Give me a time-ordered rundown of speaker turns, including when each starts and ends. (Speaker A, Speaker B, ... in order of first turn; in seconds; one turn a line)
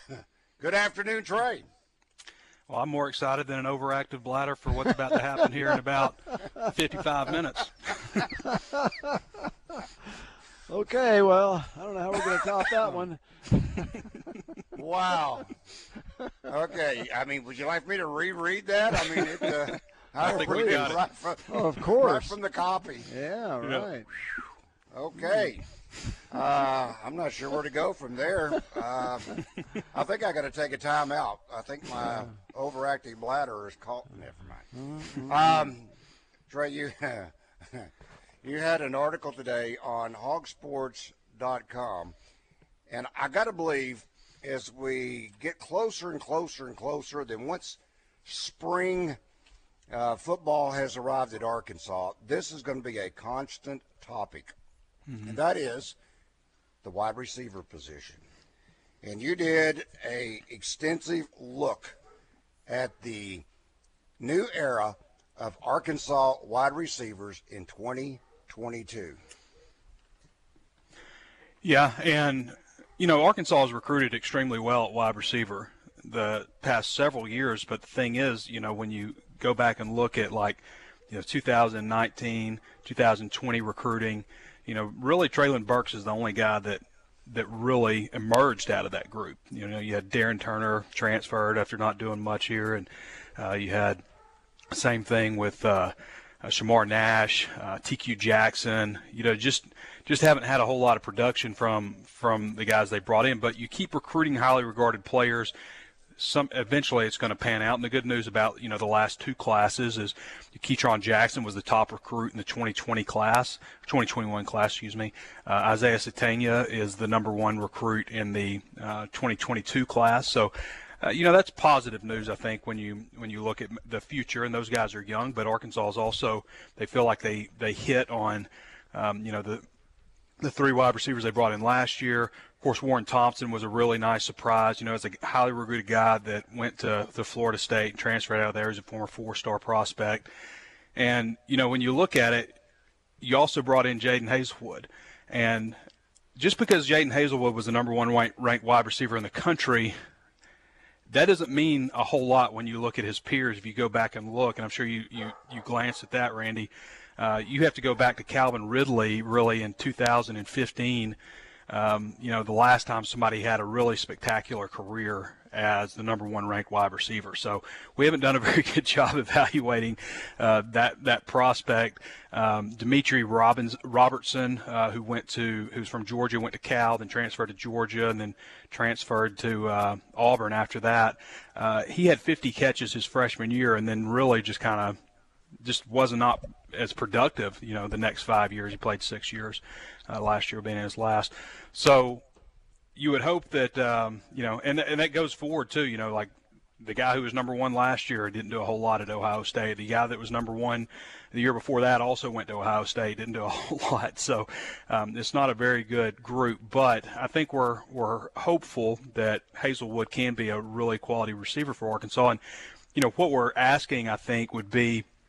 Speaker A: 0.6-1.7
Speaker B: 2.7-7.9
Speaker C: 8.5-9.1
Speaker C: 10.7-14.4
Speaker A: 14.7-15.5
Speaker A: 16.5-23.1
Speaker B: 20.2-21.0
Speaker C: 20.2-22.4
Speaker C: 23.0-24.1
Speaker B: 23.6-23.9
Speaker A: 24.9-25.6
Speaker C: 25.2-25.5
Speaker A: 26.3-35.9
Speaker C: 32.0-32.3
Speaker C: 34.7-35.7
Speaker A: 36.5-37.9
Speaker A: 38.4-42.1
Speaker A: 42.9-49.2
Speaker A: 49.9-54.5
Speaker B: 55.1-55.4
Speaker A: 55.2-56.0
Speaker A: 56.8-58.2
Speaker A: 59.0-62.0
Speaker A: 62.7-63.5
Speaker A: 64.2-69.2
Speaker B: 71.6-94.0
Speaker B: 94.7-105.5
Speaker B: 106.2-129.7
Speaker B: 130.4-140.3
Speaker B: 140.9-142.6
Speaker B: 143.2-145.8
Speaker B: 146.3-149.9
Speaker B: 151.1-161.2
Speaker B: 161.7-185.0
Speaker B: 185.6-192.2
Speaker B: 192.9-212.4
Speaker B: 212.9-215.1